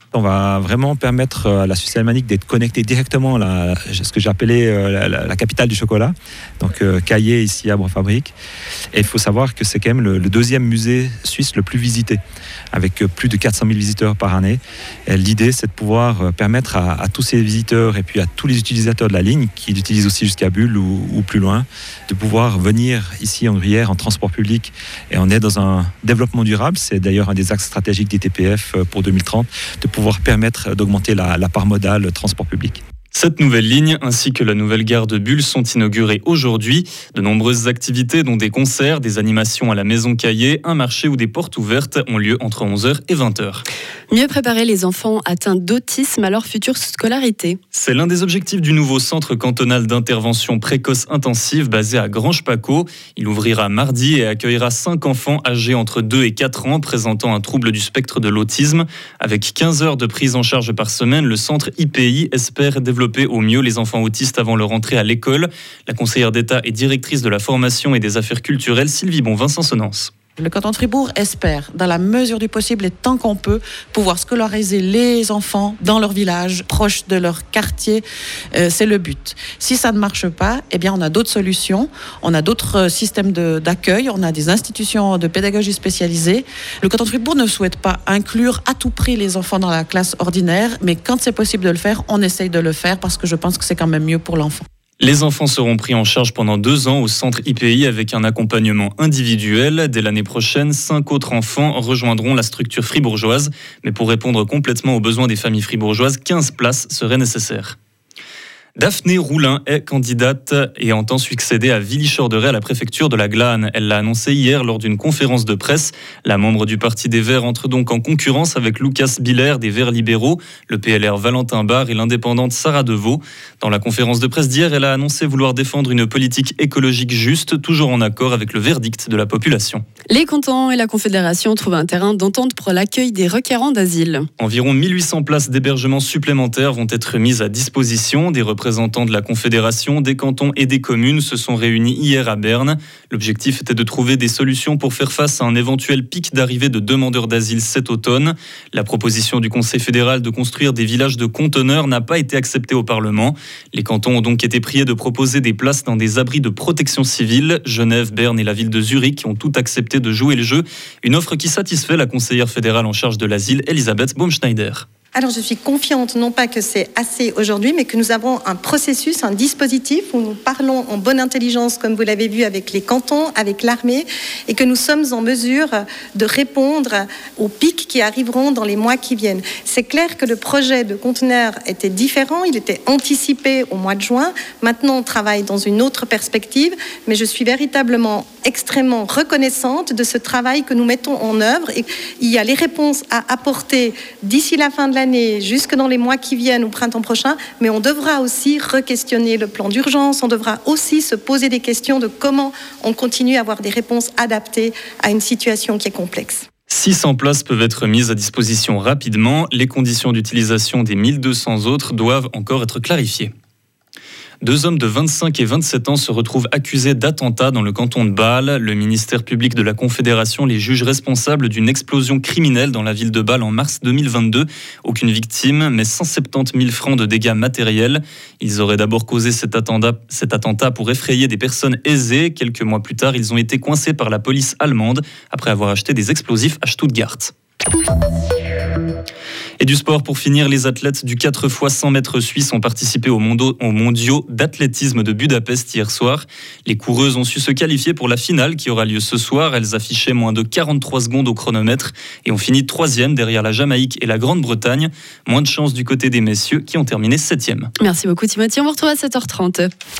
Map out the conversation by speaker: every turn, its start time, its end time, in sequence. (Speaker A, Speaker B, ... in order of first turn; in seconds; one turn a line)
Speaker A: 0.1-8.3
Speaker A: 8.9-12.2
Speaker A: 12.7-32.8
Speaker B: 33.1-43.6
Speaker C: 44.1-47.6
Speaker B: 47.7-70.1
Speaker D: 70.4-94.6
Speaker B: 95.0-107.8
Speaker B: 108.8-129.8
Speaker C: 130.1-134.2
Speaker B: 134.4-164.9
Speaker E: 165.1-206.4
Speaker B: 206.7-213.3
Speaker B: 214.4-237.3
Speaker B: 239.6-257.7
Speaker C: 257.8-259.7